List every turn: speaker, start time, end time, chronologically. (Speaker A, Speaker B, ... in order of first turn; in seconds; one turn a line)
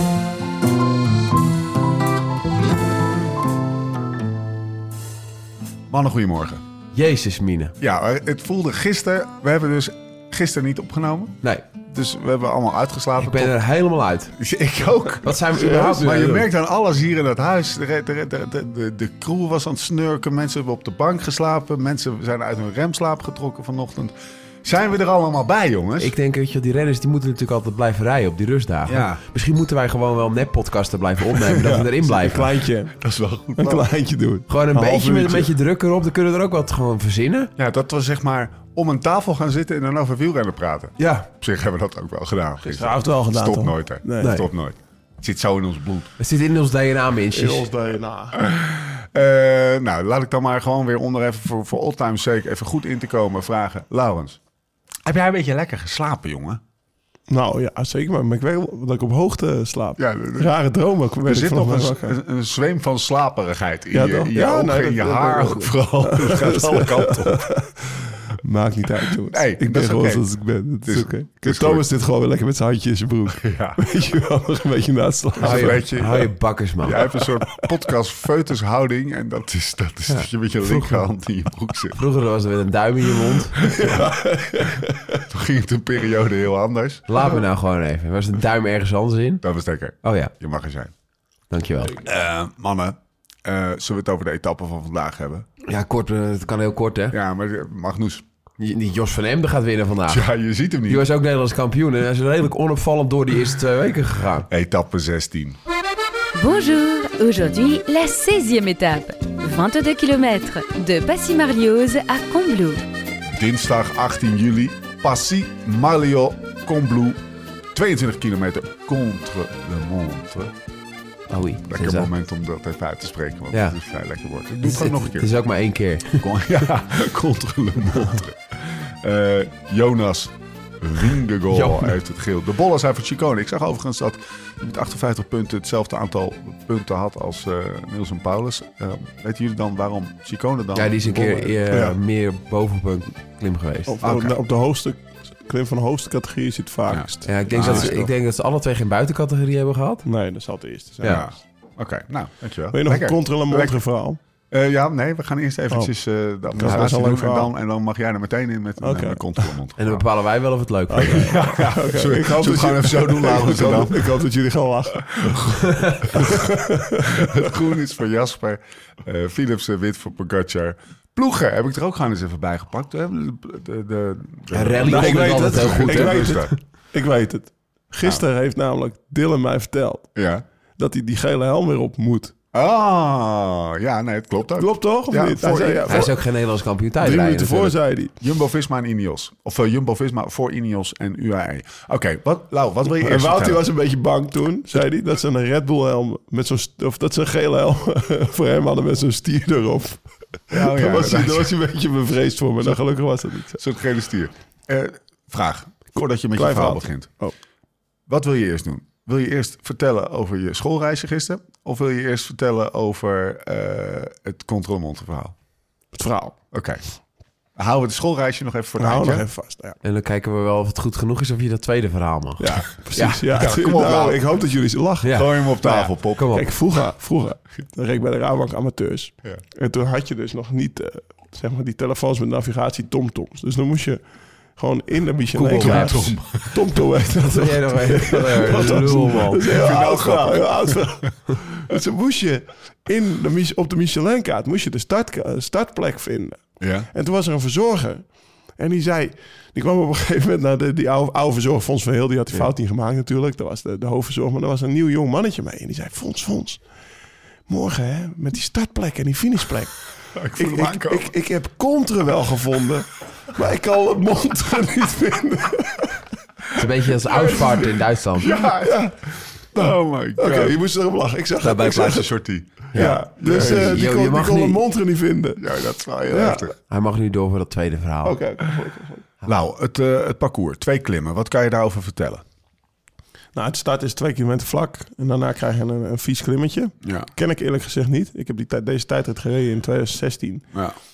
Speaker A: 5.9-6.6
Speaker B: 6.9-7.7
Speaker A: 7.8-13.6
Speaker B: 13.2-14.3
Speaker A: 14.4-26.1
Speaker B: 15.2-16.5
Speaker C: 15.6-15.9
Speaker B: 26.0-32.5
Speaker A: 28.9-29.2
Speaker A: 31.4-31.9
Speaker C: 32.0-33.0
Speaker A: 33.0-33.9
Speaker C: 33.6-35.5
Speaker B: 34.5-37.5
Speaker A: 37.6-46.1
Speaker B: 41.0-41.2
Speaker C: 42.6-44.4
Speaker B: 44.2-44.5
Speaker B: 46.2-47.7
Speaker C: 47.3-48.4
Speaker A: 48.4-54.4
Speaker A: 55.0-56.6
Speaker C: 57.3-62.2
Speaker A: 60.0-60.5
Speaker A: 61.2-67.4
Speaker C: 63.9-76.0
Speaker A: 69.3-70.3
Speaker A: 70.8-71.8
Speaker A: 73.3-73.8
Speaker A: 75.4-76.3
Speaker B: 75.4-77.0
Speaker A: 76.8-82.0
Speaker C: 77.2-77.6
Speaker B: 80.1-81.1
Speaker B: 81.9-83.6
Speaker C: 83.7-85.2
Speaker A: 83.7-84.1
Speaker A: 85.2-87.1
Speaker B: 87.1-89.4
Speaker A: 89.4-90.9
Speaker B: 90.0-90.3
Speaker B: 91.5-92.0
Speaker A: 92.0-95.5
Speaker B: 95.7-97.2
Speaker A: 97.1-98.2
Speaker B: 98.6-100.3
Speaker A: 100.0-101.0
Speaker B: 100.8-104.5
Speaker A: 104.5-105.6
Speaker D: 106.3-112.8
Speaker A: 113.3-117.2
Speaker A: 117.7-120.5
Speaker B: 121.3-122.1
Speaker A: 121.7-125.4
Speaker B: 124.6-126.2
Speaker A: 126.2-141.8
Speaker B: 131.5-131.9
Speaker B: 140.7-143.9
Speaker C: 141.7-141.9
Speaker C: 143.9-148.1
Speaker A: 144.0-144.3
Speaker A: 146.9-148.0
Speaker B: 147.2-150.0
Speaker C: 150.0-151.3
Speaker B: 151.0-151.2
Speaker A: 151.0-153.8
Speaker C: 152.7-154.2
Speaker A: 154.5-160.0
Speaker C: 155.7-155.9
Speaker C: 156.4-157.5
Speaker B: 156.6-156.9
Speaker C: 158.8-159.6
Speaker B: 159.8-161.3
Speaker C: 160.9-165.4
Speaker A: 161.0-164.2
Speaker A: 165.1-166.4
Speaker C: 166.1-167.3
Speaker A: 167.0-176.5
Speaker B: 174.5-176.5
Speaker C: 174.8-180.1
Speaker A: 180.1-180.4
Speaker C: 180.8-182.3
Speaker A: 182.5-186.1
Speaker C: 184.6-186.1
Speaker B: 185.9-187.8
Speaker C: 187.0-188.2
Speaker A: 188.2-193.6
Speaker C: 192.9-203.6
Speaker A: 200.5-201.5
Speaker A: 203.6-207.1
Speaker C: 206.3-207.3
Speaker A: 208.1-215.3
Speaker C: 215.9-216.4
Speaker A: 216.5-216.8
Speaker A: 217.6-219.2
Speaker C: 218.8-219.8
Speaker B: 219.8-223.2
Speaker C: 222.4-234.0
Speaker A: 223.3-224.2
Speaker B: 225.0-225.4
Speaker A: 225.1-226.4
Speaker B: 226.1-226.5
Speaker C: 234.6-256.6
Speaker B: 235.3-236.2
Speaker A: 235.5-236.8
Speaker B: 237.2-239.6
Speaker A: 238.8-241.1
Speaker A: 246.6-246.9
Speaker C: 257.5-266.1
Speaker A: 260.1-261.1
Speaker B: 266.5-268.3
Speaker A: 267.1-268.8
Speaker C: 268.3-272.1
Speaker A: 269.5-270.6
Speaker A: 271.4-273.8
Speaker B: 272.7-274.6
Speaker C: 272.7-275.4
Speaker A: 275.4-276.6
Speaker C: 276.1-276.5
Speaker B: 276.7-278.2
Speaker C: 278.0-279.1
Speaker A: 279.2-282.2
Speaker C: 283.3-290.5
Speaker A: 286.8-287.1